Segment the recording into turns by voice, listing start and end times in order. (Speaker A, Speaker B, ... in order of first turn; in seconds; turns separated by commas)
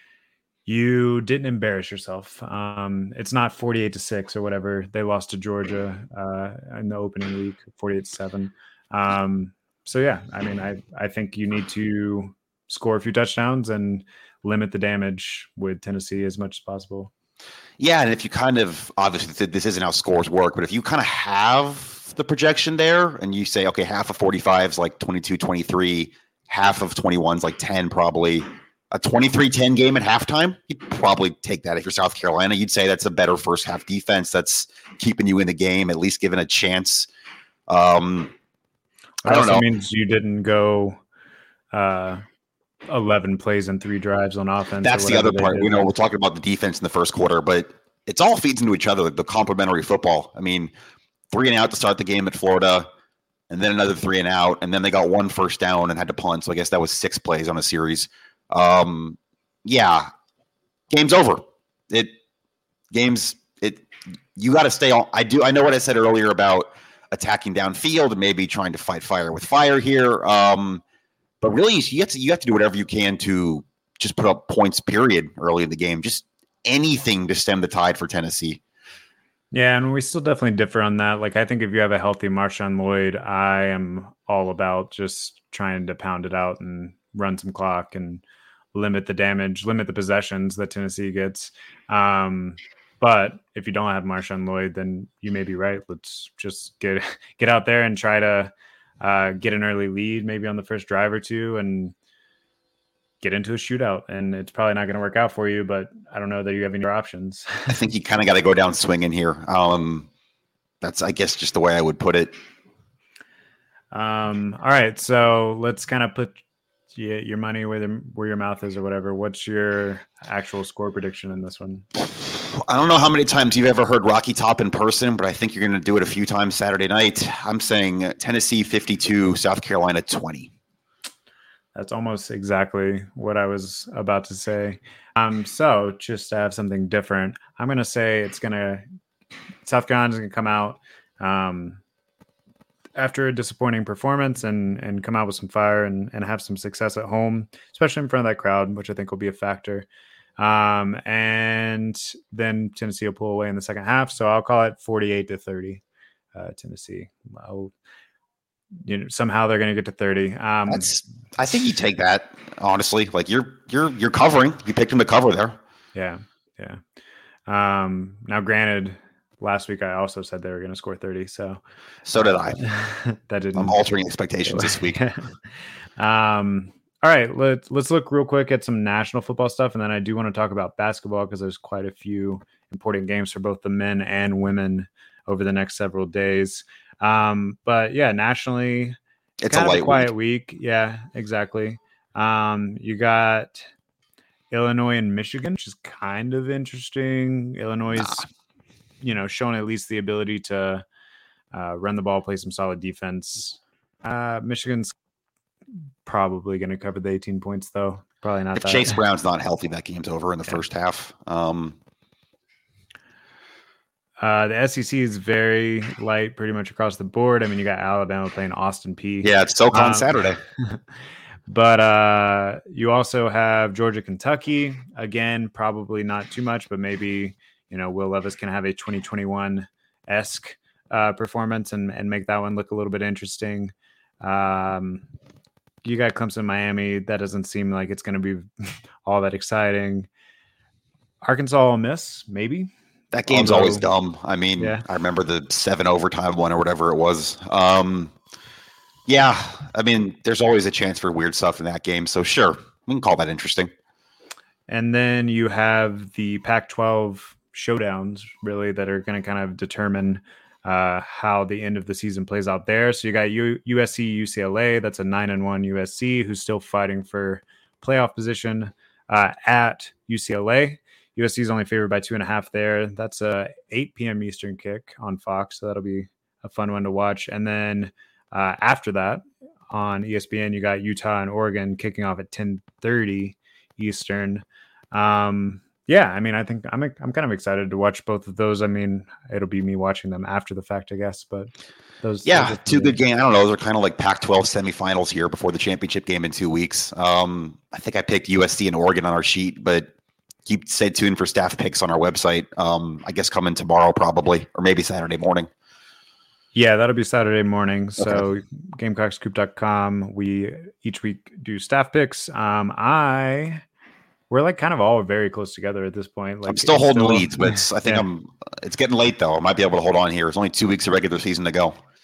Speaker A: 0.7-17.1, Speaker B: 17.8-37.1, Speaker B: 37.7-38.3, Speaker A: 39.2-41.0, Speaker B: 39.2-39.7, Speaker A: 41.7-42.2, Speaker A: 42.9-45.9, Speaker B: 44.8-50.7, Speaker B: 51.3-52.9, Speaker B: 53.5-60.1, Speaker B: 60.9-62.1, Speaker B: 62.9-70.8, Speaker B: 71.4-78.6, Speaker A: 79.5-88.2, Speaker A: 88.7-102.0, Speaker A: 103.2-107.8, Speaker B: 107.7-110.1, Speaker B: 110.8-112.3, Speaker A: 113.9-116.4, Speaker A: 116.9-121.9, Speaker B: 122.1-130.5, Speaker A: 131.8-138.8, Speaker A: 139.7-141.8, Speaker A: 143.0-149.9, Speaker A: 150.4-155.8, Speaker A: 156.3-157.7, Speaker A: 158.8-161.0, Speaker B: 160.7-165.6, Speaker A: 165.9-166.8, Speaker A: 167.5-171.6, Speaker B: 172.1-172.6, Speaker A: 172.7-173.8, Speaker B: 173.6-175.0, Speaker A: 174.5-175.3, Speaker A: 176.0-189.0, Speaker B: 189.4-190.1, Speaker A: 189.5-193.7, Speaker A: 194.5-198.3, Speaker A: 199.0-200.8, Speaker A: 201.5-204.9, Speaker A: 206.1-209.0, Speaker B: 208.6-211.8, Speaker A: 214.2-220.8, Speaker B: 219.2-220.4, Speaker A: 221.5-235.1, Speaker A: 235.8-240.1, Speaker A: 241.2-242.7, Speaker B: 243.1-248.1, Speaker A: 243.3-243.9, Speaker A: 244.6-244.8, Speaker B: 249.1-253.7, Speaker A: 254.7-293.0, Speaker B: 292.2-299.9, Speaker B: 300.5-305.5, Speaker A: 306.5-313.6, Speaker A: 314.3-318.1, Speaker B: 316.5-321.7